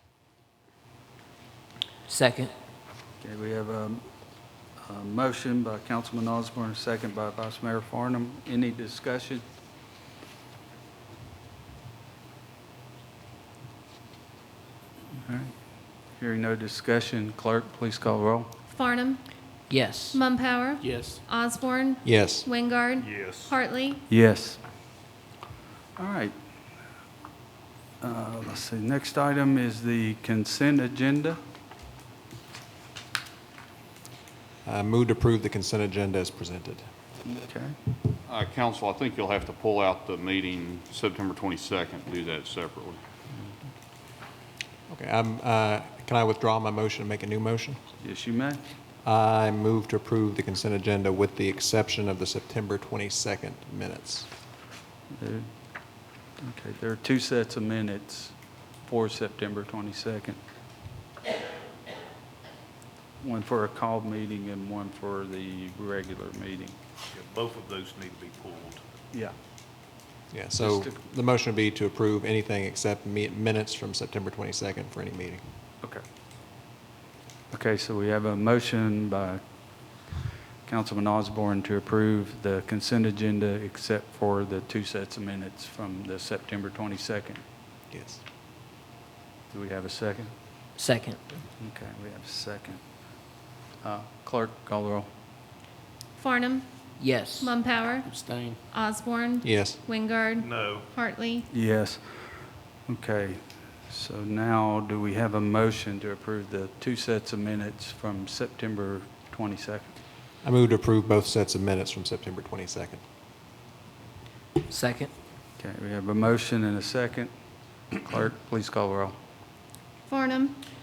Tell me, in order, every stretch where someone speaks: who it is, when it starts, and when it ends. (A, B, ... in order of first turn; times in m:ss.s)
0:02.1-0:02.5 A
0:03.2-0:04.1 B
0:04.8-0:09.4 B
0:15.2-0:15.5 B
0:16.1-0:18.5 B
0:18.7-0:19.2 C
0:19.7-0:20.2 A
0:20.1-0:24.0 C
0:20.8-0:21.2 D
0:22.0-0:22.5 E
0:23.0-0:23.5 D
0:24.1-0:24.6 B
0:26.0-0:26.3 B
0:28.0-0:31.4 B
0:34.6-0:36.9 E
0:37.2-0:37.8 B
0:38.2-0:43.0 F
0:44.9-0:47.8 E
0:48.0-0:48.6 B
0:49.0-0:54.3 E
0:55.1-0:55.5 B
0:56.4-1:00.4 B
1:03.2-1:06.8 B
1:07.1-1:08.8 D
1:10.3-1:15.4 E
1:10.6-1:11.0 B
1:17.5-1:20.1 B
1:20.6-1:27.4 B
1:27.9-1:28.2 E
1:29.5-1:30.3 B
1:30.8-1:31.2 A
1:31.6-1:35.1 B
1:36.2-1:36.6 C
1:37.0-1:37.6 A
1:37.4-1:38.1 C
1:38.0-1:38.6 D
1:38.7-1:41.5 C
1:39.4-1:39.8 E
1:40.4-1:40.9 D
1:41.5-1:49.9 B
1:50.4-1:53.0 E
1:54.6-1:55.1 A
1:55.6-1:57.3 B
1:57.9-1:59.2 B
2:00.1-2:00.6 C